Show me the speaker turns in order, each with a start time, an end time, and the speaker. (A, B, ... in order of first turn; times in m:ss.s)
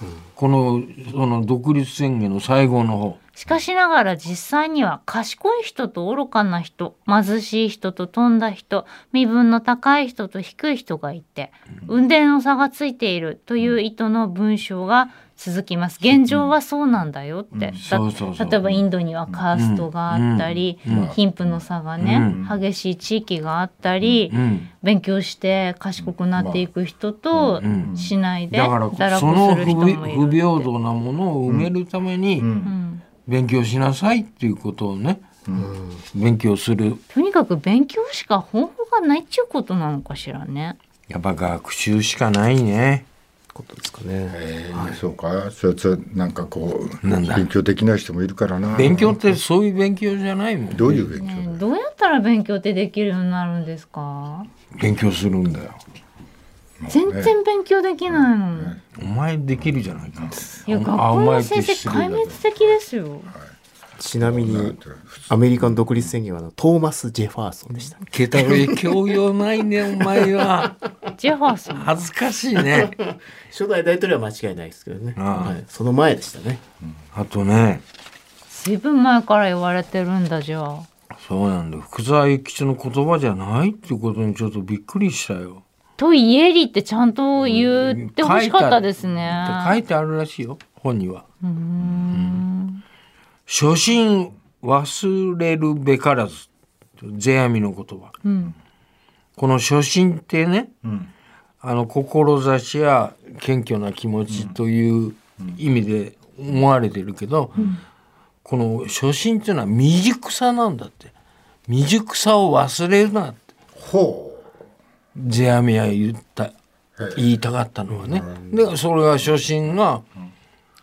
0:00.4-0:03.2 A
0:03.4-0:30.7 B
0:17.5-0:17.8 C
0:17.8-0:18.6 A
0:18.7-0:19.4 C
0:19.5-0:21.1 A
0:20.8-0:22.6 C
0:22.0-0:22.4 A
0:24.3-0:24.7 A
0:26.0-0:26.7 C
0:27.3-0:28.1 C
0:27.6-0:27.9 A
0:28.5-0:32.5 A
0:31.5-0:31.7 C
0:32.4-0:32.7 C
0:32.6-0:33.0 B
0:33.2-0:35.2 A
0:35.5-0:36.0 D
0:36.1-0:37.0 A
0:37.1-0:40.8 B
0:41.1-0:43.0 A
0:43.5-0:45.0 D
0:44.3-0:49.2 C
0:47.0-0:47.5 A
0:48.7-0:51.0 A
0:50.7-0:51.6 C
0:51.0-0:54.5 B
0:54.7-0:55.8 A
0:56.8-0:57.3 C
0:56.9-0:58.8 B
0:58.1-0:58.8 C
0:59.0-1:02.4 A
1:00.0-1:00.4 C
1:00.6-1:03.3 B
1:01.9-1:02.7 C
1:04.0-1:09.0 D
1:04.1-1:06.2 C
1:08.1-1:10.8 A
1:11.1-1:12.0 B
1:11.7-1:13.0 A
1:12.7-1:16.6 D
1:15.2-1:15.6 A
1:17.1-1:17.8 A
1:18.5-1:20.9 B
1:21.2-1:25.6 A
1:26.0-1:29.8 B
1:27.4-1:31.2 A
1:31.4-1:32.8 B
1:31.8-1:32.4 C
1:33.5-1:36.5 A
1:37.0-1:38.2 A
1:38.2-1:38.6 B
1:39.4-1:40.7 A
1:40.8-1:41.1 C
1:41.6-1:47.7 A
1:44.3-1:44.5 C
1:48.4-1:51.1 A
1:51.7-1:53.4 A
1:53.8-1:54.5 C
1:55.1-1:56.5 A
1:57.0-1:57.2 C
1:57.1-2:00.0 A
1:58.0-1:58.6 C